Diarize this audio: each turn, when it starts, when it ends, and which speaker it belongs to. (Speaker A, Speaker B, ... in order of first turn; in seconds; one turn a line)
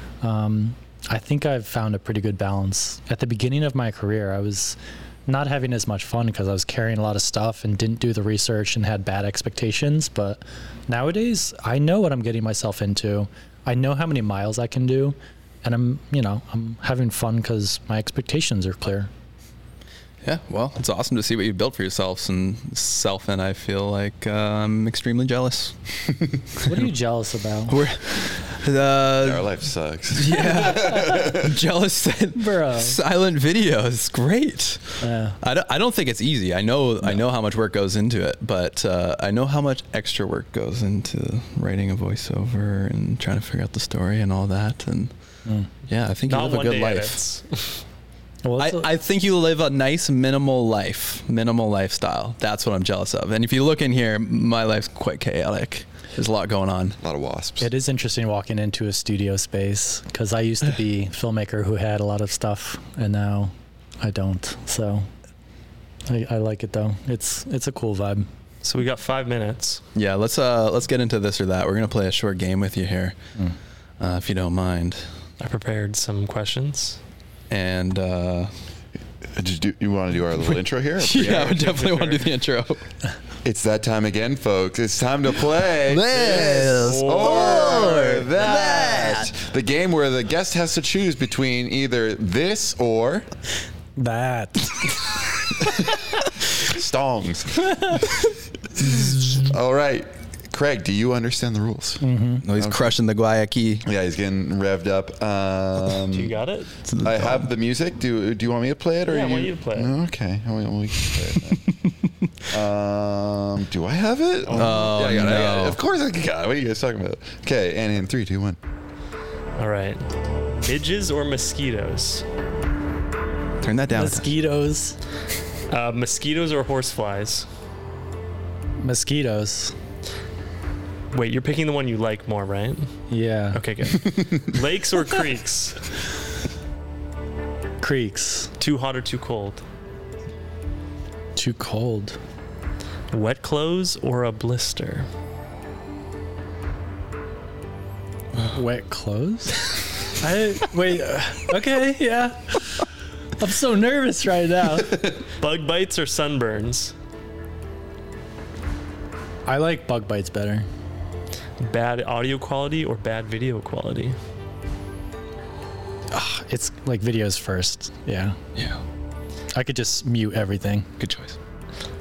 Speaker A: 0.2-19.1
Speaker B: 20.2-25.8
Speaker B: 26.6-26.8
Speaker A: 26.7-27.8
Speaker B: 27.7-29.5
Speaker C: 29.2-31.6
Speaker B: 30.1-45.1
Speaker A: 32.4-33.0
Speaker A: 35.0-35.4
Speaker B: 45.9-47.2
Speaker D: 46.3-47.8
Speaker A: 48.4-48.9
Speaker B: 48.6-57.0
Speaker C: 57.0-57.7
Speaker A: 57.6-65.1
Speaker A: 66.1-68.3
Speaker D: 68.6-69.8
Speaker B: 70.0-73.2
Speaker B: 74.0-75.0
Speaker D: 75.4-77.0
Speaker B: 77.5-78.5
Speaker C: 79.3-81.8
Speaker B: 81.0-82.8
Speaker D: 81.8-82.3
Speaker C: 83.4-93.3
Speaker B: 85.9-89.3
Speaker D: 86.8-87.9
Speaker A: 94.0-95.0
Speaker C: 95.6-98.1
Speaker C: 98.8-102.0
Speaker A: 102.0-102.5
Speaker B: 102.4-103.8
Speaker C: 102.6-103.0
Speaker C: 103.8-106.4
Speaker D: 106.1-106.7
Speaker B: 106.9-107.5
Speaker C: 107.0-111.7
Speaker D: 109.1-109.9
Speaker C: 112.5-118.6
Speaker D: 114.5-115.3
Speaker B: 114.5-115.8
Speaker D: 119.6-122.2
Speaker B: 123.6-124.3
Speaker A: 123.9-125.0
Speaker D: 125.7-127.5
Speaker A: 128.8-129.8
Speaker D: 131.1-132.9
Speaker A: 133.1-133.6
Speaker D: 133.5-135.9
Speaker A: 137.8-138.5
Speaker D: 138.6-139.6
Speaker A: 141.4-142.2
Speaker D: 143.1-145.1
Speaker A: 148.4-152.9
Speaker A: 153.4-155.2
Speaker D: 155.4-156.9
Speaker A: 159.5-160.7
Speaker D: 161.6-164.2
Speaker A: 166.1-168.4
Speaker B: 168.6-168.8
Speaker A: 169.5-170.9
Speaker B: 171.0-171.4